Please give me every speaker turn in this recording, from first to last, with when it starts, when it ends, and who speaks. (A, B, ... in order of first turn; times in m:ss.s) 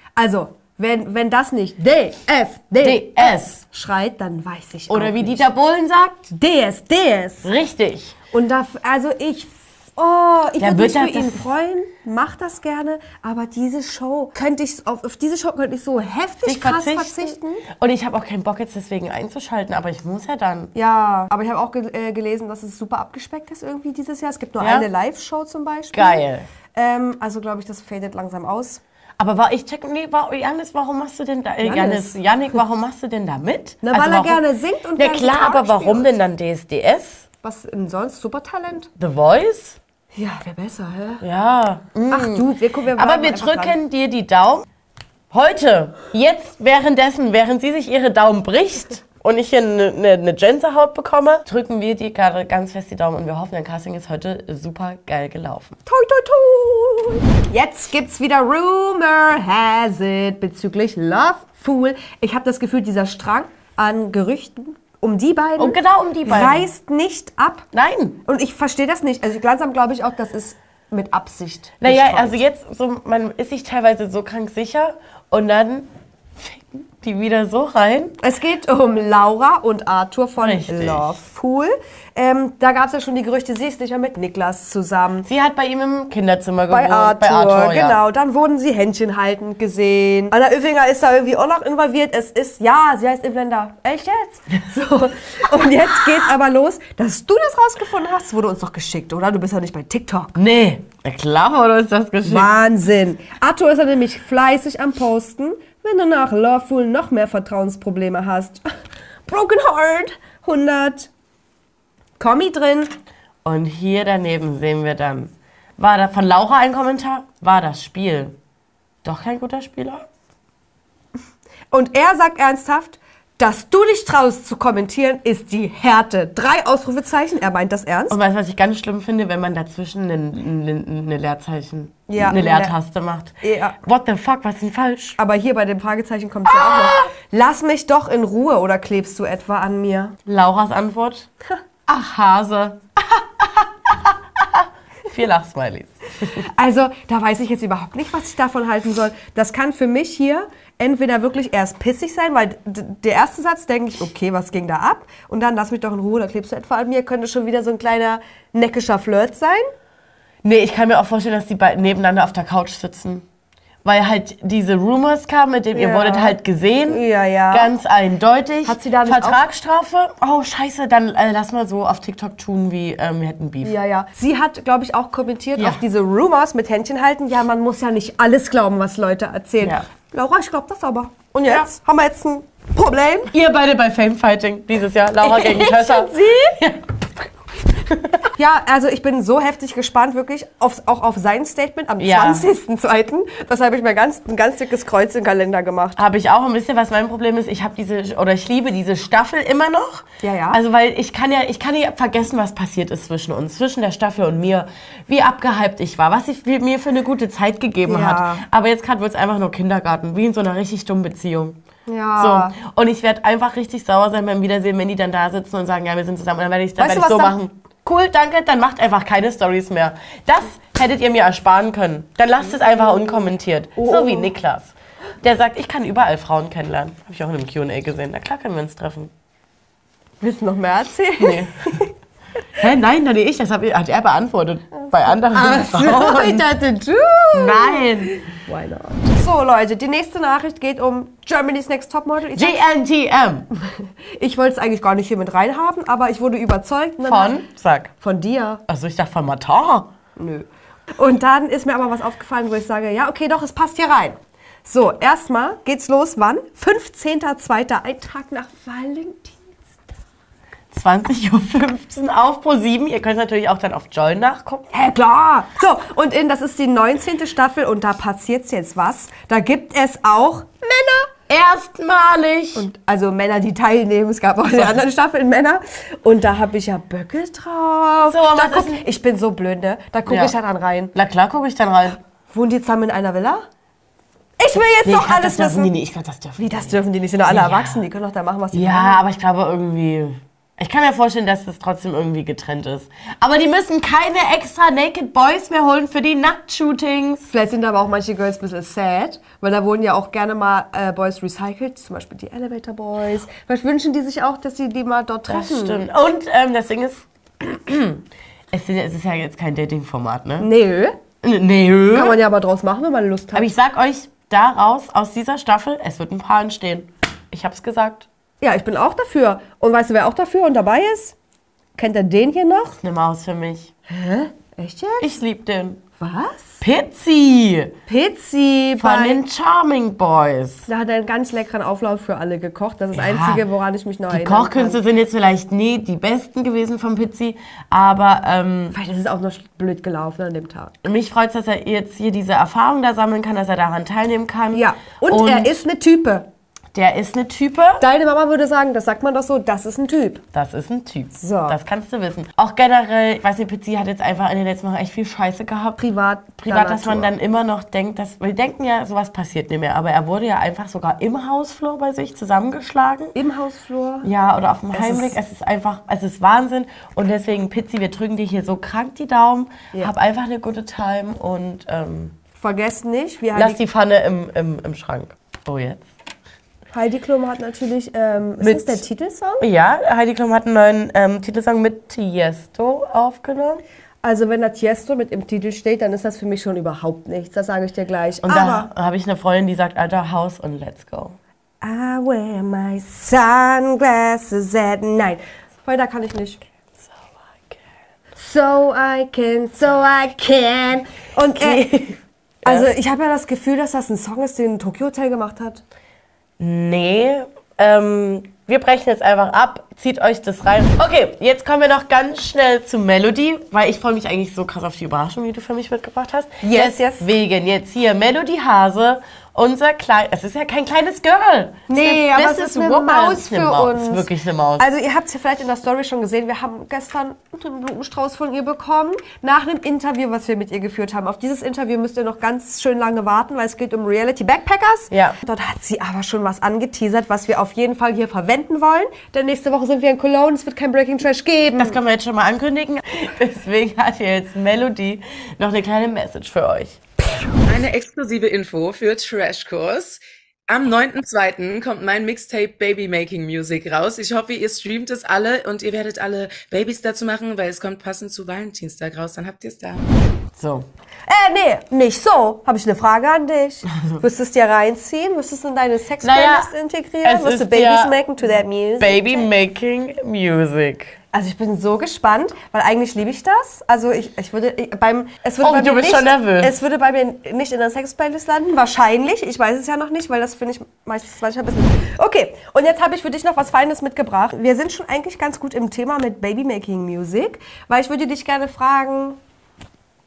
0:00.2-0:05.5 A
0:02.8-0:03.6 B
0:04.9-0:06.3 B
0:06.3-0:07.5 A
0:07.4-0:08.2 B
0:08.3-0:17.6 A
0:10.6-0:11.5 B
0:16.4-0:20.7 B
0:20.7-0:28.8 A
0:24.6-0:24.9 B
0:25.9-0:26.5 B
0:29.2-0:34.4 B
0:31.6-0:32.2 A
0:33.8-0:36.2 A
0:35.0-0:37.2 B
0:37.4-0:38.9 A
0:39.0-0:39.8 B
0:40.1-0:41.2 A
0:41.2-0:44.6 B
0:42.1-0:43.8 A
0:45.3-0:55.8 B
0:55.8-1:07.7 A
1:05.6-1:06.7 B
1:07.7-1:08.2 B
1:08.2-1:12.4 A
1:11.8-1:18.2 B
1:18.2-1:25.3 A
1:20.4-1:21.2 B
1:25.2-1:28.0 B
1:26.7-1:40.4 A
1:40.4-1:42.5 B
1:42.2-1:48.6 A
1:49.3-1:51.1 A
1:52.2-1:52.9 A
1:53.4-1:58.4 B
1:59.0-2:00.0 B
2:01.7-2:08.2 A
2:08.1-2:15.2 B
2:12.1-2:12.7 A
2:13.4-2:13.8 A
2:15.2-2:20.2 A
2:16.5-2:17.1 B
2:20.3-2:21.3 B
2:21.9-2:26.5 B
2:26.4-2:39.7 A
2:40.4-2:43.2 B
2:43.8-2:53.7 B
2:45.7-2:47.7 A
2:48.6-2:49.4 A
2:53.6-3:03.3 A
2:55.6-2:55.8 B
3:03.3-3:08.2 B
3:05.2-3:06.6 A
3:08.3-3:16.0 A
3:12.0-3:12.5 B
3:16.0-3:31.6 B
3:20.2-3:20.6 A
3:27.8-3:28.4 A
3:31.9-3:32.6 A
3:32.2-3:49.1 B
3:36.8-3:37.4 A
3:42.5-3:44.3 A
3:50.2-3:51.9 A
3:51.2-3:51.7 B
3:52.6-3:56.5 B
3:54.8-4:02.6 A
3:57.3-3:58.1 B
4:02.3-4:03.5 B
4:03.6-4:07.4 A
4:07.0-4:07.9 B
4:08.0-4:08.6 A
4:08.7-4:09.9 B
4:10.2-4:19.7 A
4:20.7-4:24.7 B
4:24.7-4:31.1 A
4:31.3-4:32.6 B
4:32.5-4:40.9 A
4:38.0-4:38.8 B
4:40.0-4:40.3 B
4:40.9-4:42.0 B
4:42.3-4:43.4 A
4:44.4-4:45.7 A
4:44.8-4:47.8 B
4:46.4-4:49.0 A
4:48.5-4:57.3 B
4:57.3-5:05.8 A
5:05.3-5:10.5 B
5:10.4-5:11.0 A
5:11.2-5:12.2 B
5:11.9-5:13.5 A
5:13.3-5:18.1 B
5:18.4-5:21.2 A
5:21.8-5:22.8 A
5:22.8-5:23.7 B
5:23.9-5:25.1 A
5:25.0-5:25.8 B
5:26.0-5:26.6 A
5:26.6-5:27.8 B
5:27.9-5:29.2 A
5:28.8-5:30.7 B
5:30.7-5:34.8 A
5:32.9-5:33.4 B
5:34.1-5:38.8 B
5:38.7-5:40.7 A
5:40.8-5:45.6 B
5:44.5-5:46.3 A
5:46.7-5:47.8 B
5:47.8-5:50.2 A
5:50.3-5:55.8 B
5:51.2-5:51.6 A
5:55.8-5:57.1 A
5:56.4-6:03.1 B
6:03.1-6:04.1 A
6:04.0-6:12.1 B
6:04.7-6:05.2 A
6:12.4-6:13.6 A
6:13.3-6:15.8 B
6:16.7-6:19.4 A
6:18.4-6:18.8 B
6:19.4-6:23.6 B
6:24.0-6:28.7 A
6:28.2-6:31.2 B
6:31.6-6:36.4 A
6:36.8-6:37.6 B
6:38.2-6:41.7 A
6:41.3-6:42.7 B
6:42.4-6:45.6 A
6:46.4-7:04.6 B
6:56.4-6:57.1 A
7:01.7-7:21.8 A
7:14.9-7:15.2 B
7:21.6-7:26.8 B
7:27.4-7:39.8 C
7:40.4-7:40.7 B
7:41.1-7:49.3 A
7:46.0-7:46.5 B
7:47.0-7:48.0 B
7:48.8-7:51.0 B
7:51.1-8:09.2 A
7:55.4-7:56.5 B